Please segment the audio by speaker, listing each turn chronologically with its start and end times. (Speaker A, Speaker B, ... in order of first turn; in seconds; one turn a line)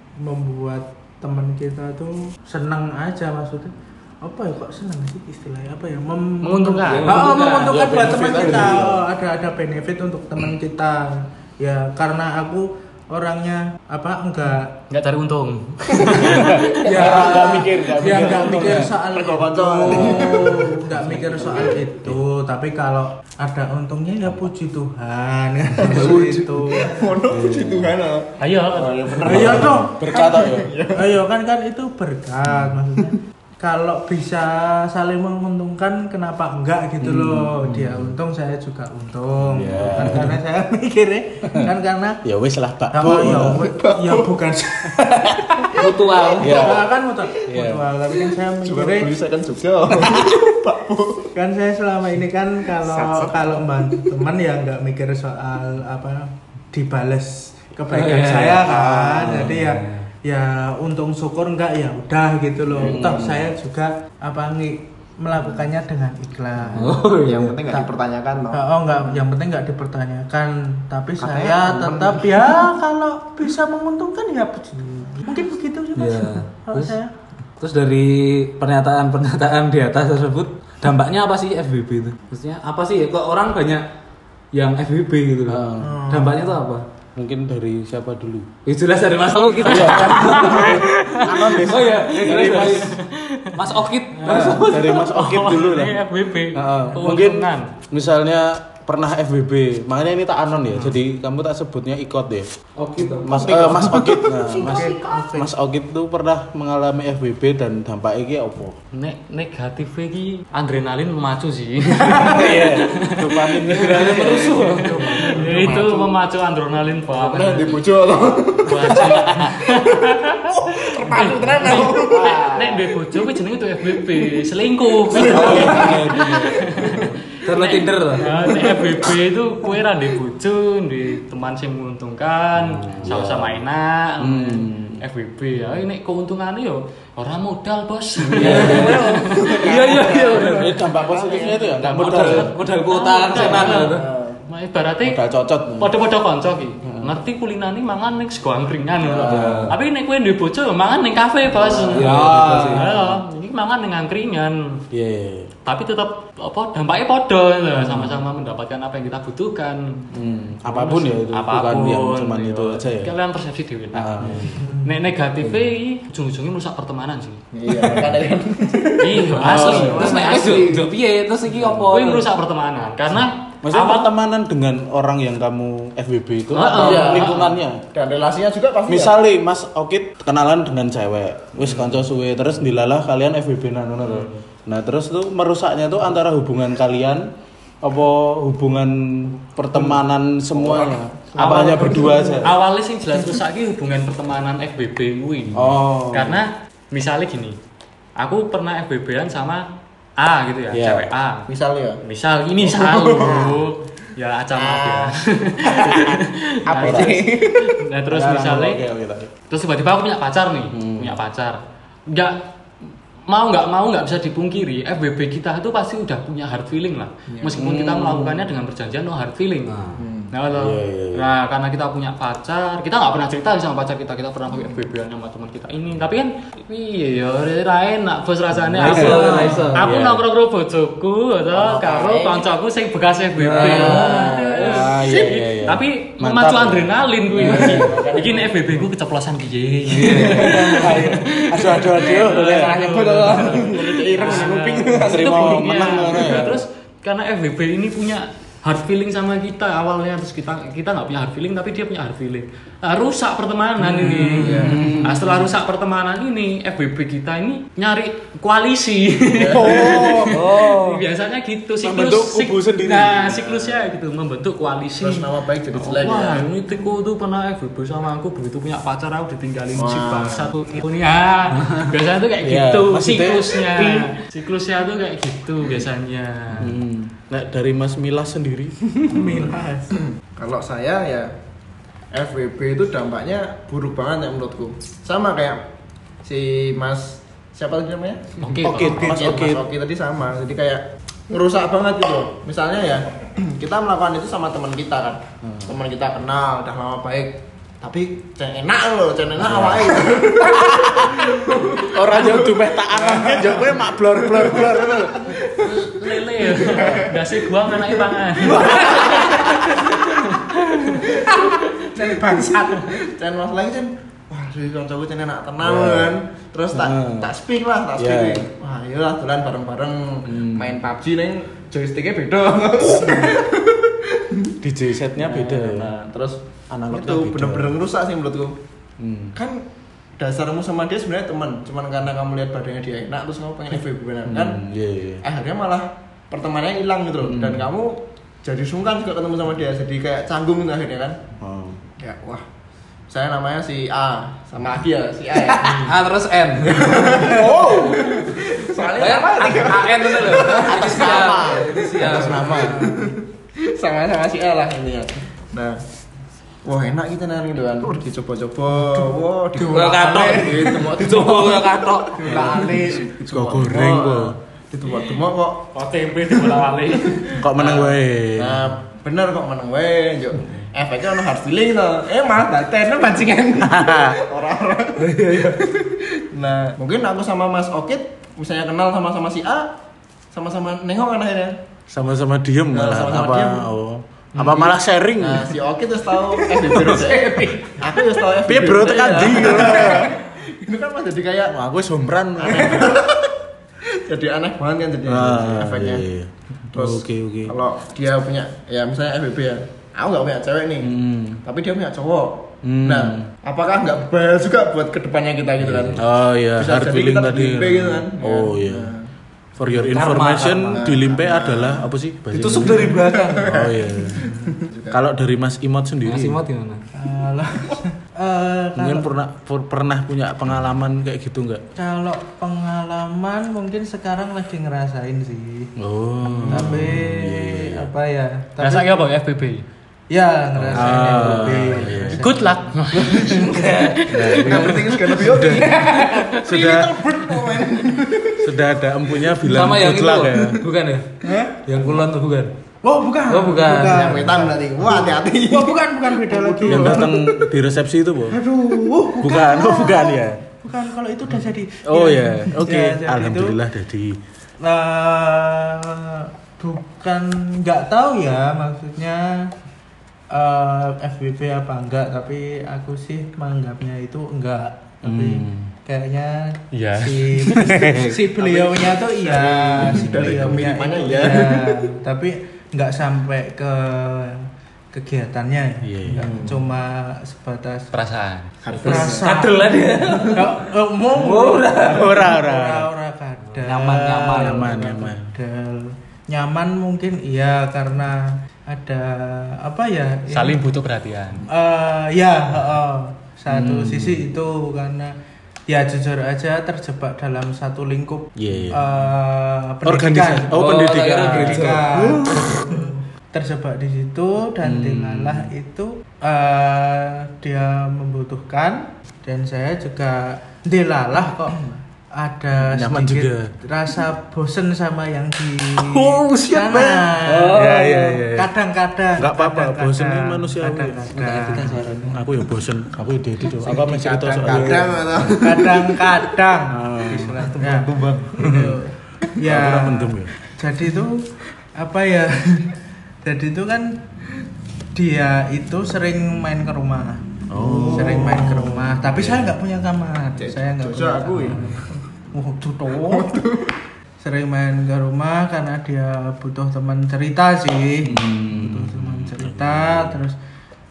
Speaker A: 0.2-14.7
Speaker B: 6.4-7.1
Speaker C: 6.9-7.8
Speaker D: 7.3-9.0
Speaker B: 14.9-16.7
Speaker D: 16.2-18.9
Speaker A: 16.5-27.1
Speaker C: 16.8-18.8
Speaker E: 18.9-20.6
Speaker D: 19.8-22.2
Speaker E: 25.8-31.2
Speaker D: 25.9-26.2
Speaker D: 27.3-28.0
Speaker B: 28.4-29.4
Speaker D: 29.2-30.7
Speaker A: 29.2-30.4
Speaker A: 30.9-42.2
Speaker D: 37.0-38.1
Speaker D: 39.4-40.4
Speaker D: 42.2-43.6
Speaker A: 42.9-45.3
Speaker E: 43.4-44.3
Speaker D: 44.9-45.5
Speaker C: 45.7-46.7
Speaker E: 45.8-46.5
Speaker A: 46.3-49.1
Speaker D: 46.4-46.9
Speaker D: 47.4-47.9
Speaker E: 48.6-51.3
Speaker D: 49.9-50.5
Speaker A: 51.3-67.0
Speaker E: 52.8-54.2
Speaker C: 57.9-58.7
Speaker D: 58.5-59.7
Speaker C: 59.4-60.0
Speaker D: 62.7-63.5
Speaker E: 66.6-68.6
Speaker C: 66.7-67.6
Speaker A: 68.5-77.1
Speaker E: 71.2-72.6
Speaker C: 76.0-77.0
Speaker C: 77.6-83.8
Speaker C: 84.5-86.8
Speaker D: 85.5-86.0
Speaker A: 85.8-86.5
Speaker D: 87.1-88.5
Speaker C: 88.7-93.0
Speaker D: 89.6-93.0
Speaker B: 89.7-90.9
Speaker B: 92.8-93.6
Speaker C: 93.5-95.1
Speaker D: 94.2-96.0
Speaker B: 94.9-97.7
Speaker D: 96.5-102.5
Speaker C: 102.8-104.1
Speaker D: 103.2-108.8
Speaker A: 103.6-105.5
Speaker B: 108.9-118.0
Speaker D: 112.1-115.1
Speaker C: 113.7-115.3
Speaker E: 114.6-116.2
Speaker E: 117.1-123.0
Speaker B: 118.6-140.0
Speaker D: 119.0-119.5
Speaker D: 121.9-122.5
Speaker E: 124.0-124.2
Speaker E: 125.0-127.1
Speaker D: 125.1-127.1
Speaker C: 127.4-128.4
Speaker E: 128.2-129.1
Speaker D: 133.0-133.6
Speaker D: 134.2-135.0
Speaker D: 138.3-139.2
Speaker E: 138.4-141.9
Speaker C: 138.5-140.8
Speaker D: 139.7-142.5
Speaker B: 141.8-145.2
Speaker C: 142.0-144.0
Speaker E: 143.3-144.4
Speaker D: 145.0-145.9
Speaker B: 145.8-154.8
Speaker D: 146.8-147.1
Speaker E: 149.0-149.5
Speaker D: 149.1-149.8
Speaker C: 149.3-149.7
Speaker E: 151.5-152.1
Speaker D: 151.9-153.2
Speaker C: 151.9-152.9
Speaker D: 154.9-155.5
Speaker B: 155.7-160.1
Speaker D: 157.8-158.2
Speaker D: 160.1-163.1
Speaker B: 160.7-168.0
Speaker D: 163.9-164.6
Speaker A: 164.6-164.9
Speaker E: 167.5-170.9
Speaker D: 167.7-168.2
Speaker B: 169.0-170.7
Speaker D: 169.3-170.2
Speaker C: 169.8-172.3
Speaker D: 171.5-171.9
Speaker B: 171.9-174.1
Speaker D: 173.6-177.8
Speaker B: 176.5-177.5
Speaker E: 176.7-179.2
Speaker D: 178.9-187.3
Speaker B: 184.0-184.3
Speaker D: 187.8-192.6
Speaker E: 190.5-192.4
Speaker B: 191.3-197.6
Speaker D: 195.5-196.4
Speaker B: 198.2-199.6
Speaker B: 200.2-201.5
Speaker D: 200.7-201.1
Speaker E: 201.5-202.0
Speaker B: 202.0-208.8
Speaker E: 202.6-203.6
Speaker E: 204.5-207.8
Speaker D: 206.8-207.2
Speaker D: 208.1-209.3
Speaker B: 209.5-212.4
Speaker D: 210.7-211.2
Speaker B: 213.3-276.8
Speaker E: 217.3-217.6
Speaker D: 217.5-218.4
Speaker C: 219.7-220.0
Speaker E: 219.9-220.3
Speaker D: 220.5-221.3
Speaker D: 228.8-230.2
Speaker C: 228.8-229.9
Speaker E: 229.2-229.7
Speaker E: 231.5-232.4
Speaker D: 233.4-238.1
Speaker E: 233.5-235.3
Speaker E: 237.3-238.5
Speaker C: 240.0-240.5
Speaker D: 240.1-246.6
Speaker E: 240.5-240.9
Speaker E: 242.0-245.7
Speaker D: 254.0-255.4
Speaker E: 254.1-255.4
Speaker A: 254.1-254.4
Speaker E: 259.3-260.2
Speaker D: 259.5-260.8
Speaker C: 260.3-261.0
Speaker D: 261.8-263.6
Speaker E: 264.9-266.5
Speaker E: 269.7-270.6
Speaker D: 272.4-273.9
Speaker D: 276.6-279.5
Speaker A: 279.0-279.9
Speaker E: 280.0-281.3
Speaker E: 282.1-285.6
Speaker E: 286.2-309.9
Speaker B: 288.4-289.1
Speaker D: 288.6-289.6
Speaker D: 295.4-295.8
Speaker D: 299.4-305.3
Speaker B: 305.5-311.1
Speaker D: 309.3-309.8
Speaker E: 310.9-324.5
Speaker A: 311.3-312.9
Speaker D: 315.6-316.2
Speaker D: 316.7-317.3
Speaker D: 317.9-318.5
Speaker D: 320.2-320.8
Speaker D: 324.6-325.9
Speaker E: 325.1-328.6
Speaker D: 326.7-327.8
Speaker D: 329.0-329.4
Speaker E: 329.3-329.6
Speaker E: 330.2-334.6
Speaker D: 334.2-335.2
Speaker E: 335.2-341.2
Speaker D: 337.2-337.7
Speaker D: 341.4-341.8
Speaker E: 342.0-342.4
Speaker E: 343.1-345.9
Speaker C: 345.6-347.1
Speaker E: 346.6-355.8
Speaker D: 346.9-348.2
Speaker C: 348.9-352.7
Speaker D: 350.5-352.8
Speaker A: 352.5-353.1
Speaker E: 356.6-365.7
Speaker C: 359.6-362.6
Speaker D: 362.3-362.6
Speaker D: 363.2-364.4
Speaker B: 365.7-367.8
Speaker E: 366.3-379.7
Speaker D: 367.4-368.8
Speaker D: 373.6-374.2
Speaker C: 375.0-375.6
Speaker E: 380.3-381.6
Speaker D: 381.9-385.6
Speaker E: 382.7-383.6
Speaker E: 384.4-391.6
Speaker D: 386.7-387.3
Speaker D: 388.4-390.2
Speaker D: 391.5-393.0
Speaker E: 392.4-393.4
Speaker E: 393.9-396.1
Speaker D: 395.1-397.5
Speaker E: 396.7-409.1
Speaker D: 400.8-401.4
Speaker D: 402.6-403.3
Speaker D: 405.6-408.9
Speaker D: 409.6-416.4
Speaker C: 409.8-410.9
Speaker E: 410.7-411.9
Speaker C: 412.3-413.5
Speaker E: 412.5-415.0
Speaker C: 416.0-416.8
Speaker A: 416.9-419.1
Speaker D: 418.8-421.6
Speaker A: 421.8-425.7
Speaker D: 425.8-427.9
Speaker A: 426.3-429.1
Speaker B: 428.6-429.6
Speaker A: 430.1-433.8
Speaker D: 430.6-432.3
Speaker C: 430.8-431.2
Speaker B: 432.1-435.2
Speaker C: 433.4-435.7
Speaker D: 434.1-434.9
Speaker E: 434.2-438.5
Speaker A: 435.5-436.2
Speaker D: 436.4-437.0
Speaker D: 438.4-440.6
Speaker C: 439.4-442.5
Speaker A: 441.2-441.6
Speaker A: 442.8-444.6
Speaker C: 443.3-444.3
Speaker E: 443.9-447.2
Speaker A: 445.5-447.2
Speaker D: 446.6-448.4
Speaker A: 448.3-453.6
Speaker D: 449.2-450.4
Speaker D: 451.8-454.2
Speaker A: 454.6-459.5
Speaker A: 460.3-477.9
Speaker D: 465.0-465.7
Speaker B: 466.7-467.5
Speaker C: 467.7-468.2
Speaker E: 468.3-471.9
Speaker D: 469.8-470.7
Speaker D: 475.8-476.6
Speaker B: 477.9-478.7
Speaker E: 478.6-479.3
Speaker A: 478.8-479.7
Speaker C: 478.8-480.6
Speaker A: 480.3-490.6
Speaker C: 481.1-482.1
Speaker D: 481.8-482.9
Speaker C: 483.6-484.7
Speaker D: 484.3-485.3
Speaker B: 490.3-491.5
Speaker A: 491.5-495.1
Speaker D: 493.5-494.3
Speaker A: 495.7-500.6
Speaker D: 498.4-498.9
Speaker D: 499.8-502.6
Speaker C: 500.5-502.5
Speaker A: 501.2-522.1
Speaker D: 504.6-505.5
Speaker D: 512.5-513.5
Speaker C: 515.8-518.2
Speaker D: 516.6-518.5
Speaker D: 519.2-525.4
Speaker C: 521.1-522.1
Speaker E: 523.6-526.0
Speaker A: 525.4-534.0
Speaker D: 526.7-527.4
Speaker C: 527.5-528.6
Speaker D: 528.4-528.8
Speaker D: 529.4-530.3
Speaker A: 534.9-543.4
Speaker D: 537.5-539.5
Speaker E: 540.4-542.0
Speaker E: 543.0-543.7
Speaker A: 544.2-550.4
Speaker D: 548.0-550.2